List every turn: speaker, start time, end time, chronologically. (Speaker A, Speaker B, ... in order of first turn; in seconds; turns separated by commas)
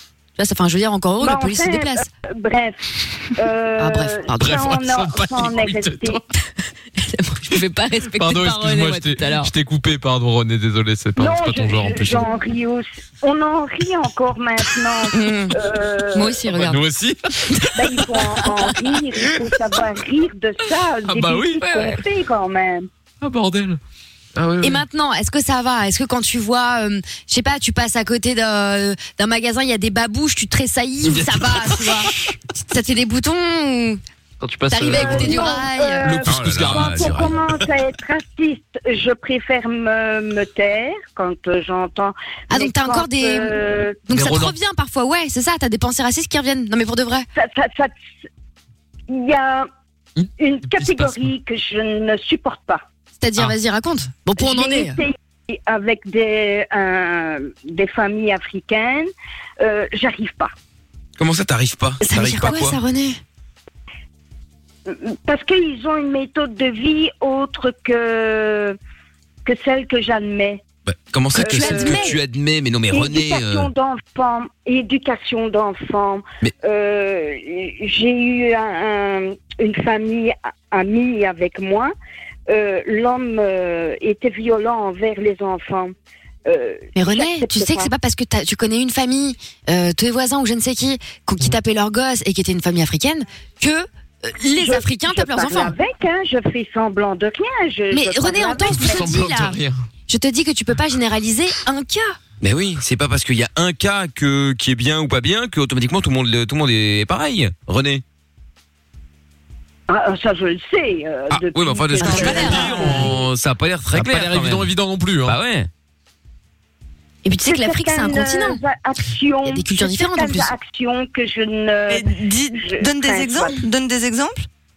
Speaker A: 0.4-2.0, Speaker B: 1.2-2.8, Speaker B: 3.3-6.2, Speaker A: 3.8-4.6, Speaker C: 4.4-6.2, Speaker A: 7.0-9.5, Speaker C: 8.1-12.3, Speaker B: 11.2-16.4, Speaker A: 15.1-15.5, Speaker A: 16.1-16.8, Speaker C: 16.5-18.7, Speaker B: 17.7-22.9, Speaker C: 21.1-22.0, Speaker C: 23.2-23.8, Speaker C: 24.4-24.8, Speaker A: 24.6-34.0, Speaker C: 34.4-37.4, Speaker A: 34.7-36.2, Speaker B: 34.9-44.0, Speaker D: 36.2-37.4, Speaker A: 42.5-43.5, Speaker A: 44.1-47.3, Speaker C: 44.1-44.5, Speaker B: 47.3-47.9, Speaker B: 49.1-49.7, Speaker B: 50.4-52.8, Speaker C: 50.8-51.3, Speaker A: 53.2-55.0, Speaker B: 54.4-59.1, Speaker B: 59.6-60.5, Speaker D: 61.2-62.8, Speaker A: 62.0-63.2, Speaker B: 64.9-68.8, Speaker B: 69.4-70.6, Speaker D: 70.9-73.7, Speaker A: 71.3-72.2, Speaker B: 71.4-72.2, Speaker B: 72.9-81.9, Speaker B: 82.5-85.9, Speaker B: 86.5-87.9, Speaker A: 87.0-95.7, Speaker B: 94.6-99.2, Speaker A: 97.9-102.2, Speaker C: 98.6-99.8, Speaker D: 102.4-108.0, Speaker B: 109.9-113.1, Speaker D: 111.3-114.7, Speaker A: 112.0-112.8, Speaker E: 112.0-112.9, Speaker C: 113.9-115.3, Speaker D: 115.2-115.7, Speaker A: 117.2-118.6, Speaker B: 117.4-123.6, Speaker A: 119.5-120.5, Speaker E: 121.9-124.4